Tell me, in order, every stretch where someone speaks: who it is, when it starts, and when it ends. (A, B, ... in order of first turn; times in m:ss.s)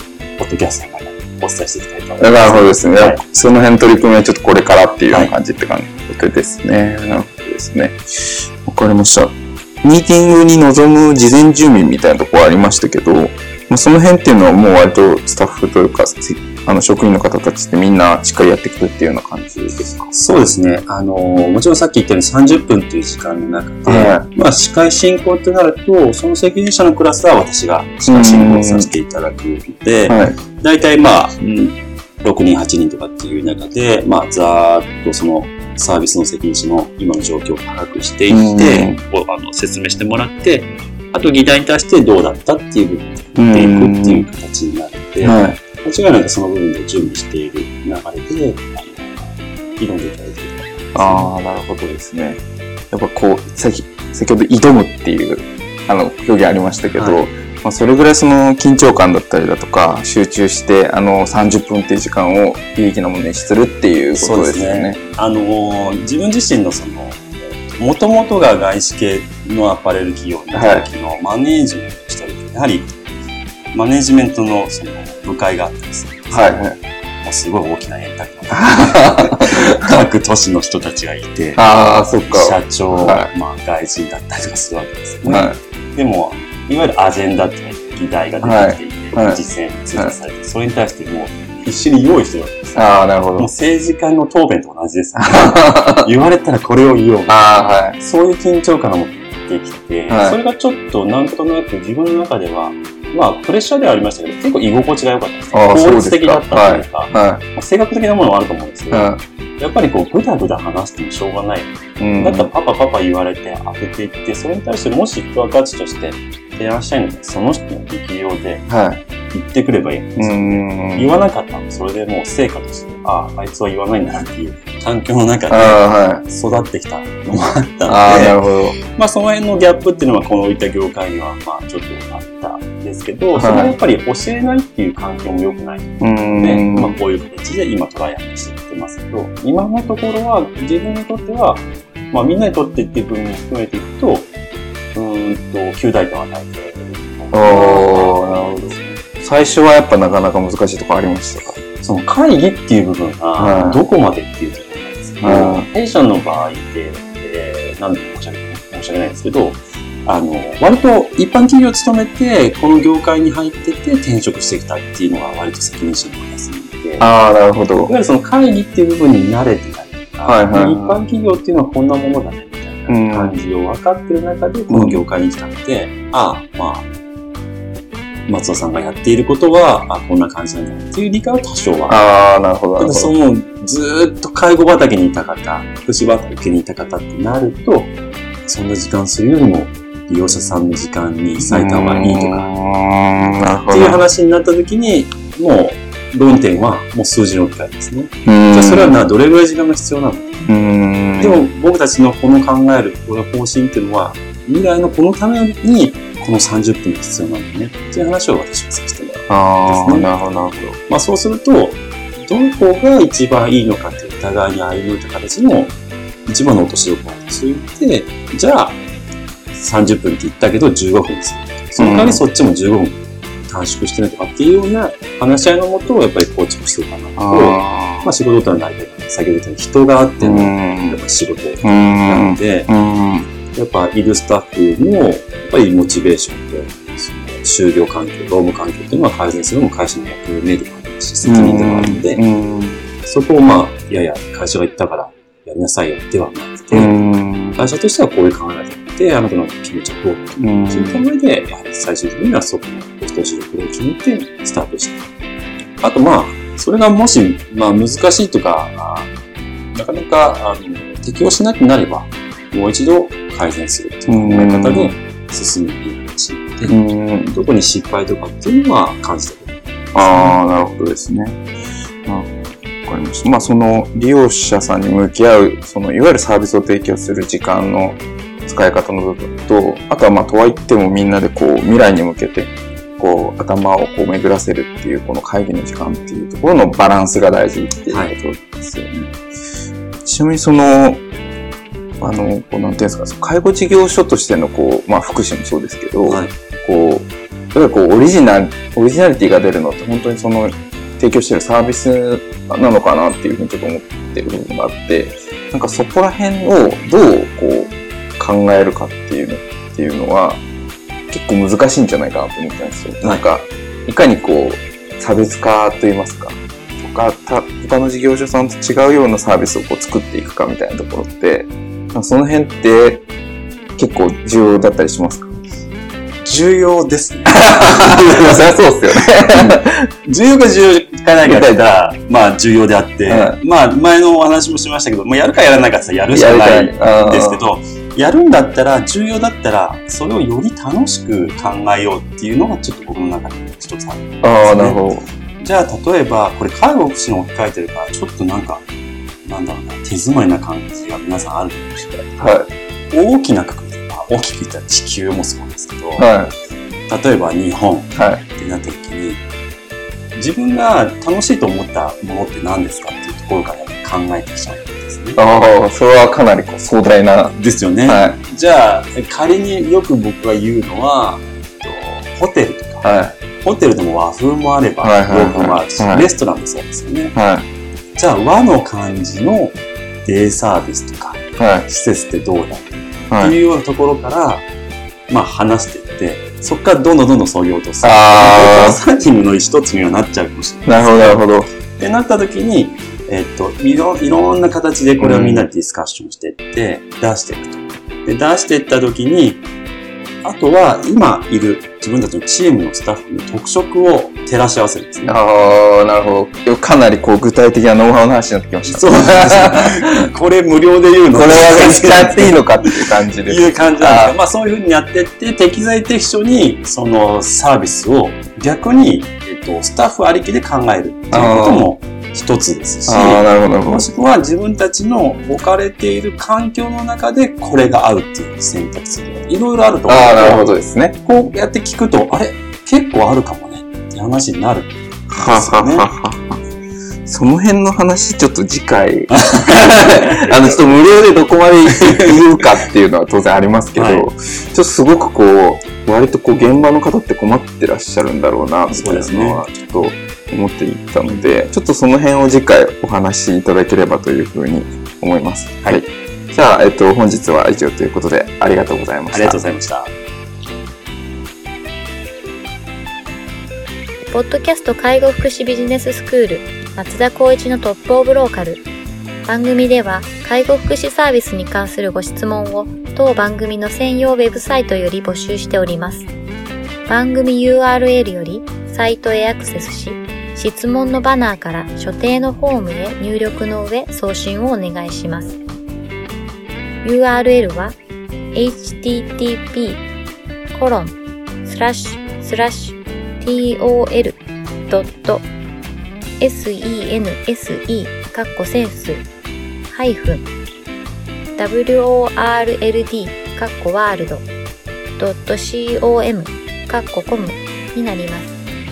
0:00.4-0:03.2 A
0:02.2-0:20.1 B
0:20.1-0:51.3 A
0:23.8-0:24.2 B
0:28.1-0:28.9 B
0:30.1-0:30.4 B
0:38.3-0:39.0 B
0:43.3-0:44.3 B
0:45.2-0:45.6 B
0:50.9-1:05.0 B
0:56.8-0:57.2 A
1:04.2-1:12.9 A
1:10.5-1:10.8 B
1:13.7-1:16.6 A
1:16.3-1:16.8 B
1:17.2-1:37.4 A
1:18.5-1:19.6 B
1:21.6-1:23.3 B
1:25.2-1:25.6 B
1:28.4-1:29.4 B
1:32.8-1:33.5 B
1:35.3-1:36.1 B
1:37.3-1:38.0 B
1:38.0-1:58.6 A
1:40.1-1:40.4 B
1:45.5-1:47.4 B
1:48.9-1:49.2 B
1:52.0-1:52.5 B
1:58.7-1:59.0 B
1:59.3-2:08.4 A
2:00.2-2:01.1 B
2:05.5-2:06.2 B
2:07.9-2:08.8 B
2:08.9-2:24.3 A
2:13.3-2:13.8 B
2:16.0-2:17.0 B
2:24.9-2:29.0 A
2:27.3-2:31.6 B
2:31.8-2:47.1 A
2:33.4-2:33.8 B
2:35.2-2:35.7 B
2:47.0-2:47.9 B
2:47.8-2:56.9 A
2:50.2-2:51.0 B
2:52.9-2:53.4 B
2:54.7-2:55.0 B
2:58.3-3:02.0 A
3:01.9-3:03.1 B
3:02.8-3:07.9 A
3:08.4-3:12.5 A
3:11.4-3:14.0 B
3:13.7-3:20.4 A
3:18.2-3:19.0 B
3:20.4-3:21.4 B
3:21.2-3:35.7 A
3:29.3-3:30.8 B
3:36.2-3:38.8 A
3:39.5-3:52.7 A
3:41.8-3:42.2 B
3:47.2-3:48.1 B
3:50.2-3:51.0 B
3:51.6-3:53.3 B
3:53.5-4:02.2 A
4:01.2-4:02.8 B
4:03.0-4:15.1 A
4:06.7-4:07.6 B
4:10.4-4:11.0 B
4:15.8-4:19.1 A
4:19.7-4:30.4 A
4:24.1-4:24.9 B
4:26.7-4:27.4 B
4:29.9-4:31.4 B
4:32.0-4:49.1 B
4:47.9-4:48.1 A
4:50.0-4:51.0 B
4:52.0-5:10.4 B
4:56.0-4:56.3 A
5:11.1-5:23.0 B
5:23.8-5:25.3 B
5:26.2-5:28.5 A
5:27.3-5:29.8 B
5:29.4-5:44.8 A
5:31.2-5:31.6 B
5:33.0-5:33.4 B
5:36.1-5:37.4 B
5:44.2-5:45.0 B
5:45.4-5:48.6 A
5:49.2-5:52.2 A
5:52.2-5:52.5 B
5:52.9-5:56.1 A
5:56.0-5:56.3 B
5:56.9-5:59.2 A
5:57.9-5:58.2 B
6:00.1-6:05.2 A
6:05.2-6:08.2 B
6:07.3-6:12.9 A
6:12.8-6:13.2 B
6:13.4-6:17.1 A
6:14.8-6:16.1 B
6:17.1-6:17.5 B
6:18.0-6:24.4 A
6:21.4-6:21.6 B
6:23.1-6:23.3 B
6:25.1-6:39.4 A
6:27.8-6:28.8 B
6:30.6-6:31.5 B
6:35.0-6:35.4 B
6:40.2-6:45.2 A
6:45.0-6:49.7 B
6:48.7-7:15.9 A
6:51.1-6:54.1 B
7:01.1-7:01.7 B
7:02.9-7:03.9 B
7:09.9-7:11.0 B
7:15.1-7:16.4 B
7:17.0-7:39.4 B
7:19.1-7:20.6 A
7:21.7-7:22.4 A
7:23.7-7:24.1 A
7:28.7-7:29.4 A
7:39.1-7:39.9 A
7:44.0-7:48.6 C
7:49.2-7:56.1 C
7:56.8-8:05.4 C
8:06.8-8:07.8 C
8:08.3-8:09.8 C
8:10.5-8:15.3 C
8:16.2-8:19.0 C
8:19.7-8:20.3 C
8:21.4-8:24.3 C
8:25.0-8:28.4 C